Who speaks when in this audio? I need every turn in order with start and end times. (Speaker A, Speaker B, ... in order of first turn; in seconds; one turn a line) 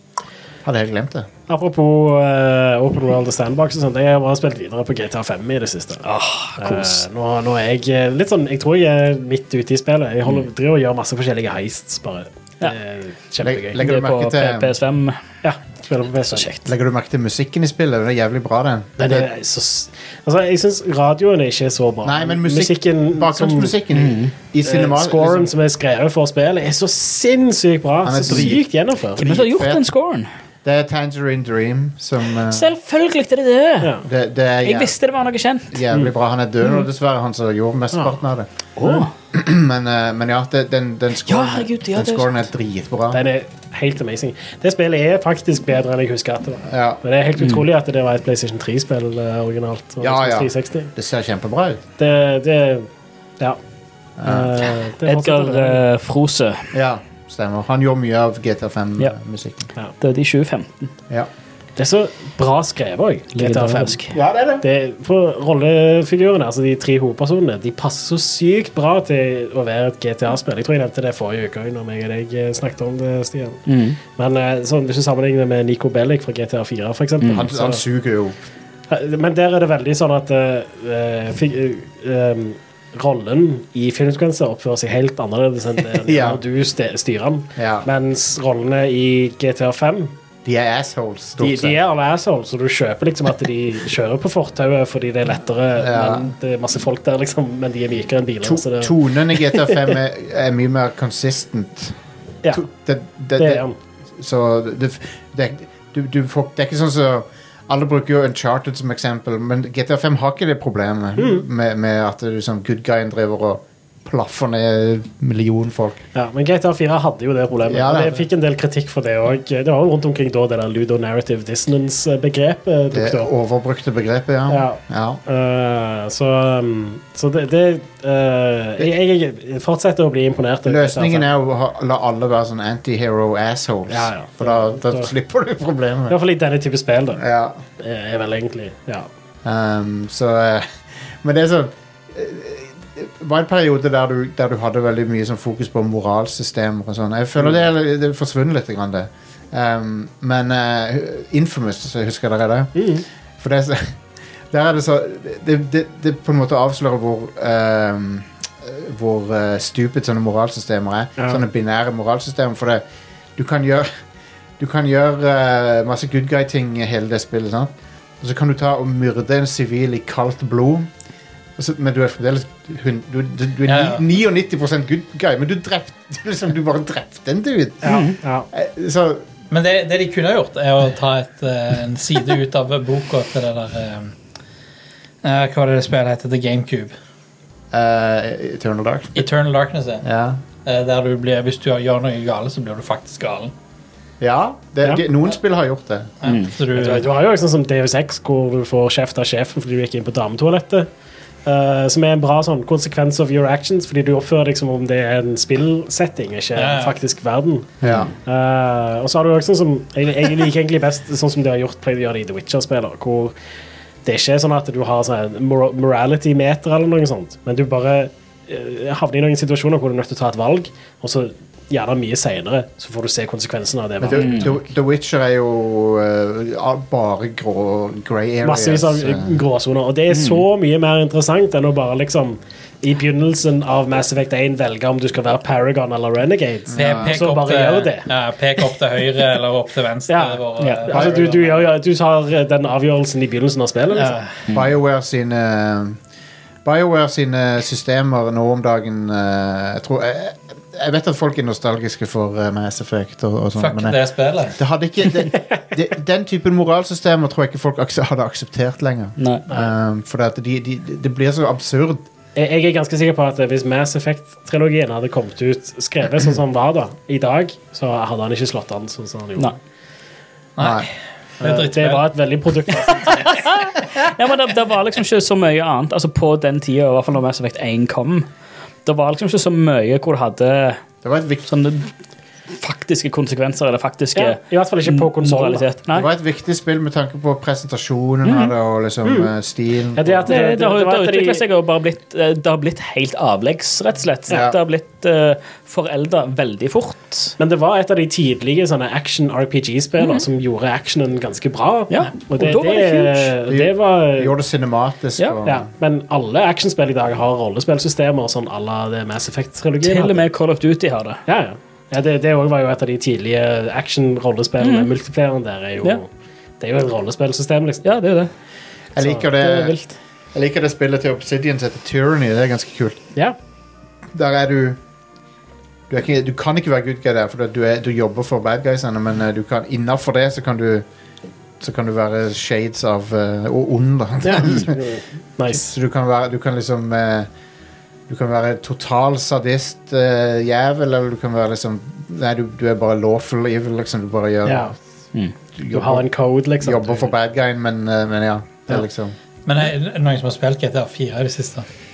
Speaker A: 0.6-1.3
Speaker B: 1.5-6.1
Speaker C: 6.0-7.0
Speaker B: 6.6-13.8
Speaker A: 13.4-14.7
Speaker C: 13.8-15.2
Speaker B: 15.4-16.5
Speaker C: 16.3-16.7
Speaker A: 16.6-19.2
Speaker B: 19.0-23.8
Speaker A: 22.0-25.5
Speaker C: 23.9-24.3
Speaker B: 24.6-29.2
Speaker A: 28.0-29.9
Speaker C: 29.2-30.3
Speaker A: 30.6-32.7
Speaker C: 32.4-34.0
Speaker A: 34.0-34.9
Speaker C: 34.6-35.8
Speaker A: 35.7-38.5
Speaker C: 38.8-39.1
Speaker A: 39.3-43.2
Speaker C: 41.2-42.3
Speaker B: 43.1-50.9
Speaker A: 46.7-47.0
Speaker C: 47.4-47.6
Speaker A: 50.0-51.8
Speaker B: 52.0-52.9
Speaker A: 54.2-54.7
Speaker B: 54.2-55.8
Speaker C: 55.0-56.7
Speaker A: 56.7-59.7
Speaker C: 60.0-60.9
Speaker B: 61.8-64.0
Speaker C: 63.3-64.2
Speaker A: 64.1-64.6
Speaker B: 64.6-77.8
Speaker C: 73.7-74.0
Speaker C: 77.2-77.5
Speaker A: 77.2-78.3
Speaker B: 78.9-90.1
Speaker A: 86.0-86.4
Speaker A: 87.5-87.9
Speaker A: 90.4-91.8
Speaker B: 91.4-99.8
Speaker A: 95.8-96.3
Speaker A: 98.4-102.0
Speaker A: 102.5-103.6
Speaker B: 103.4-103.7
Speaker A: 104.2-116.0
Speaker B: 111.2-111.4
Speaker B: 116.1-123.3
Speaker A: 117.7-118.2
Speaker A: 122.9-125.2
Speaker B: 124.5-131.3
Speaker A: 130.6-136.2
Speaker B: 133.9-135.1
Speaker B: 136.1-137.2
Speaker A: 137.2-137.6
Speaker B: 137.8-139.1
Speaker A: 139.4-154.0
Speaker B: 152.8-153.0
Speaker A: 154.5-162.8
Speaker B: 161.2-161.4
Speaker A: 163.3-163.9
Speaker A: 164.6-170.9
Speaker A: 171.6-179.2
Speaker D: 173.7-174.0
Speaker B: 177.8-178.5
Speaker C: 177.8-178.2
Speaker D: 179.5-184.1
Speaker D: 185.2-186.9
Speaker A: 187.7-189.2
Speaker D: 189.2-190.0
Speaker A: 190.0-190.4
Speaker D: 190.6-193.5
Speaker A: 194.2-196.1
Speaker D: 196.2-197.1
Speaker C: 196.2-196.5
Speaker B: 196.7-200.9
Speaker B: 201.4-207.7
Speaker D: 206.5-207.0
Speaker A: 207.8-208.1
Speaker B: 208.2-213.3
Speaker B: 214.0-224.6
Speaker A: 224.0-229.4
Speaker C: 224.1-224.5
Speaker B: 228.4-238.1
Speaker C: 230.1-230.4
Speaker A: 236.7-237.2
Speaker D: 236.8-241.7
Speaker B: 240.1-244.2
Speaker C: 240.6-240.9
Speaker D: 243.9-244.4
Speaker A: 244.5-246.0
Speaker A: 246.6-254.0
Speaker D: 253.6-254.6
Speaker A: 254.5-262.0
Speaker C: 259.2-259.4
Speaker B: 262.3-269.6
Speaker D: 270.6-272.1
Speaker A: 270.6-270.9
Speaker B: 271.4-273.5
Speaker C: 273.2-278.3
Speaker C: 278.8-280.8
Speaker A: 281.0-281.5
Speaker C: 281.5-281.9
Speaker C: 282.5-286.1
Speaker B: 284.1-285.6
Speaker A: 285.9-290.4
Speaker C: 288.2-288.5
Speaker B: 289.0-289.3
Speaker B: 289.9-291.4
Speaker C: 290.3-297.3
Speaker A: 294.3-294.6
Speaker B: 297.4-304.3
Speaker C: 301.9-303.3
Speaker A: 303.5-305.7
Speaker B: 305.4-310.2
Speaker C: 309.8-311.2
Speaker B: 311.3-316.1
Speaker C: 314.6-314.9
Speaker B: 316.6-317.8
Speaker C: 317.8-318.3
Speaker A: 318.9-319.8
Speaker C: 319.4-319.9
Speaker A: 320.3-323.0
Speaker A: 324.1-324.8
Speaker A: 325.9-330.9
Speaker A: 331.6-334.8
Speaker B: 334.2-335.7
Speaker A: 335.5-337.3
Speaker A: 338.1-344.8
Speaker B: 344.4-344.7
Speaker A: 345.6-346.1
Speaker B: 345.7-347.1
Speaker A: 346.6-349.1
Speaker D: 349.4-351.6